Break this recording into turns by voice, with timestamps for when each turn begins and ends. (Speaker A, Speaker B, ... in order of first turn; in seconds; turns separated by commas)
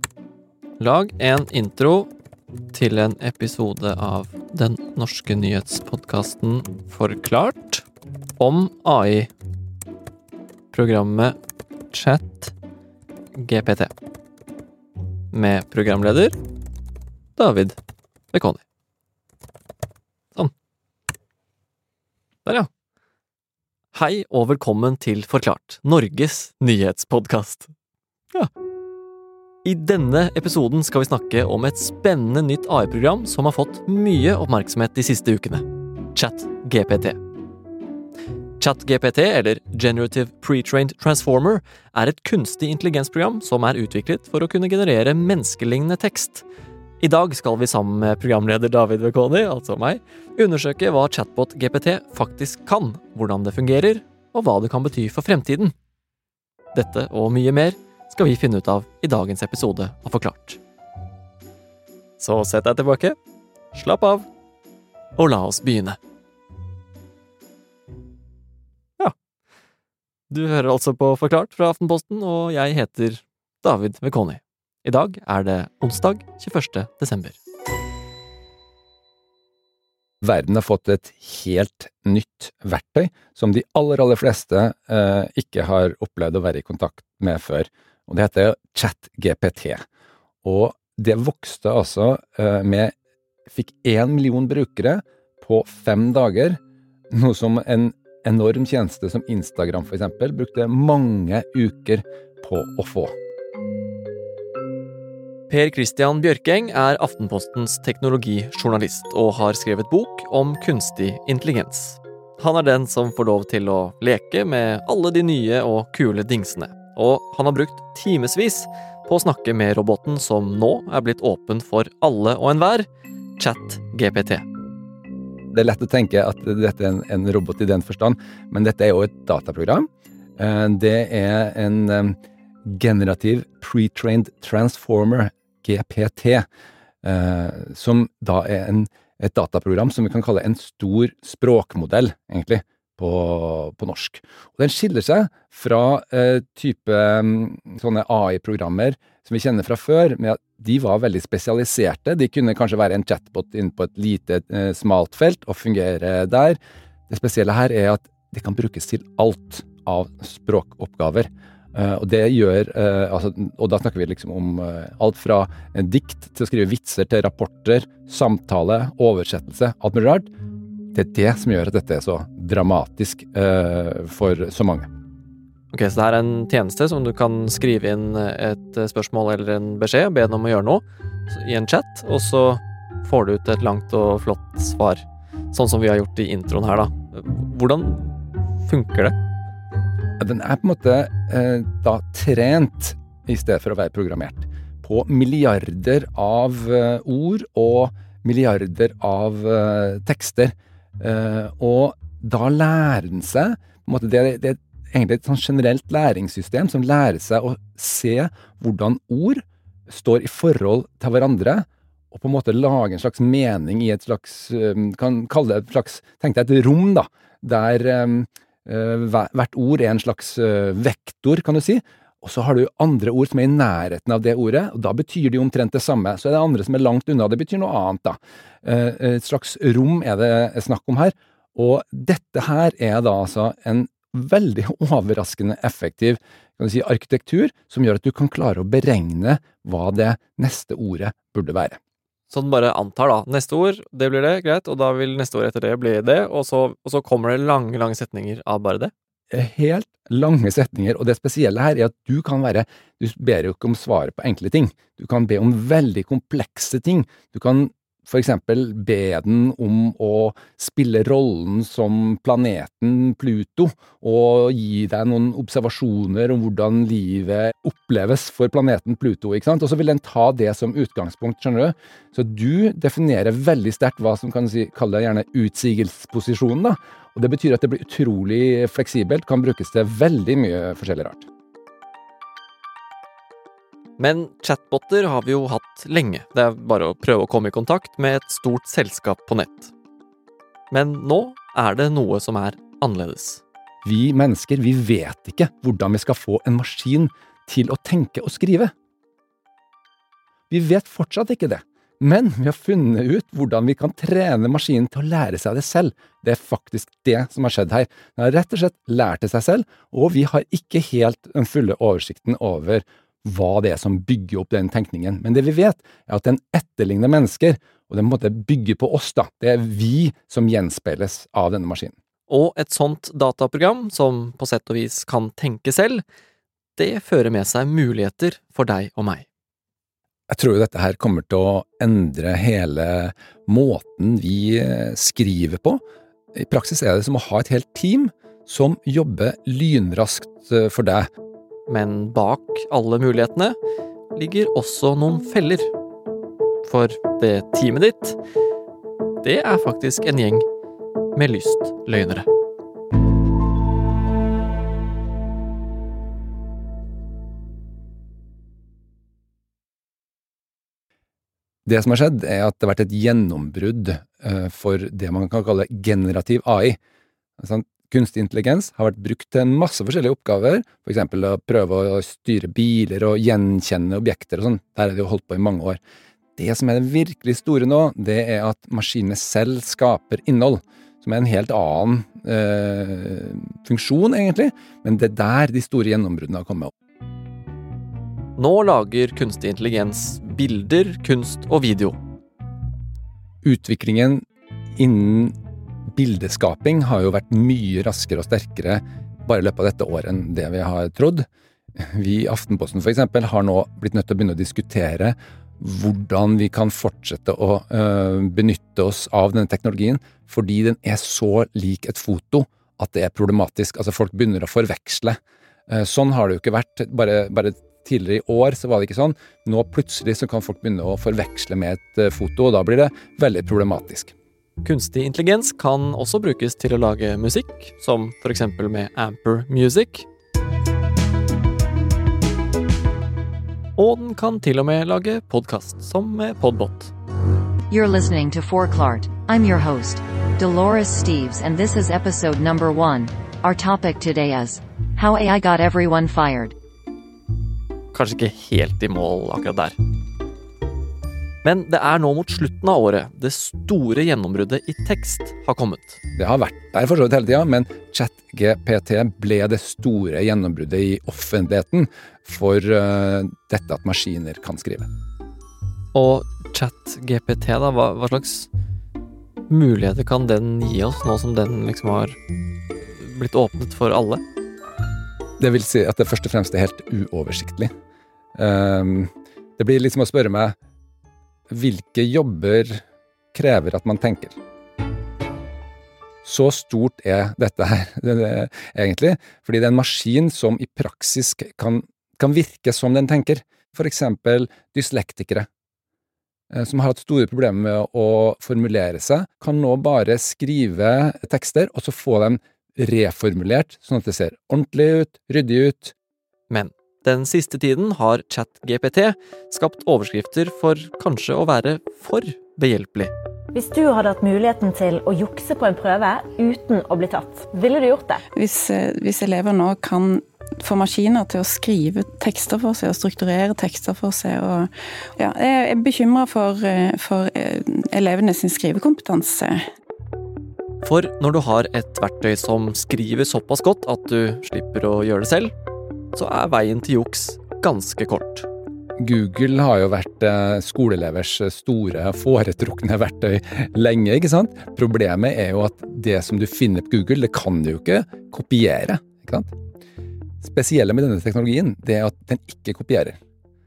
Speaker A: 0.8-2.1, Speaker A: 2.7-7.8, Speaker A: 8.4-9.3, Speaker A: 10.7-11.4, Speaker A: 11.9-12.5, Speaker A: 13.3-13.9, Speaker A: 15.3-16.4, Speaker A: 17.4-17.8, Speaker A: 18.3-18.6, Speaker A: 23.9-27.7, Speaker A: 29.6-37.2, Speaker A: 38.6-46.5, Speaker A: 47.0-55.7, Speaker A: 56.7-60.6, Speaker A: 62.2-63.2, Speaker A: 63.7-64.3, Speaker A: 65.2-66.0, Speaker A: 70.3-77.4, Speaker B: 80.2-89.8, Speaker B: 90.4-92.9, Speaker B: 93.5-96.6, Speaker B: 97.1-103.2, Speaker A: 105.5-122.9, Speaker A: 123.4-124.5, Speaker B: 125.5-129.9, Speaker B: 130.4-136.5, Speaker B: 137.0-170.3, Speaker B: 170.9-174.9, Speaker A: 175.7-189.2, Speaker B: 190.2-241.8, Speaker A: 242.3-248.9, Speaker B: 249.3-281.3, Speaker A: 284.0-289.7, Speaker A: 290.7-293.4, Speaker B: 293.8-298.7, Speaker B: 300.5-321.9, Speaker A: 322.3-326.0, Speaker A: 326.8-329.3, Speaker B: 330.3-335.8, Speaker B: 336.4-341.1, Speaker A: 341.7-343.6, Speaker A: 344.1-345.7, Speaker A: 346.6-348.2, Speaker A: 349.2-350.4, Speaker A: 351.2-352.3, Speaker B: 361.7-366.8, Speaker B: 367.4-375.8, Speaker B: 376.4-386.7, Speaker A: 388.4-392.0, Speaker B: 393.4-394.2, Speaker B: 394.8-395.4, Speaker B: 395.9-401.3, Speaker B: 401.8-415.2, Speaker B: 415.7-424.1, Speaker A: 424.6-430.1, Speaker A: 433.8-436.9, Speaker C: 437.7-446.5, Speaker A: 447.9-449.8, Speaker A: 451.4-456.0, Speaker B: 456.1-464.9, Speaker A: 465.9-468.5, Speaker A: 469.5-472.2, Speaker A: 472.9-474.2, Speaker B: 475.4-477.7, Speaker B: 478.4-480.6, Speaker B: 481.5-482.8, Speaker B: 483.3-484.4, Speaker B: 486.2-495.5, Speaker B: 496.5-505.9, Speaker A: 506.5-513.1, Speaker D: 513.5-518.2, Speaker E: 518.4-529.6, Speaker A: 530.8-535.5, Speaker A: 536.1-538.5, Speaker B: 539.0-549.5, Speaker B: 550.4-553.2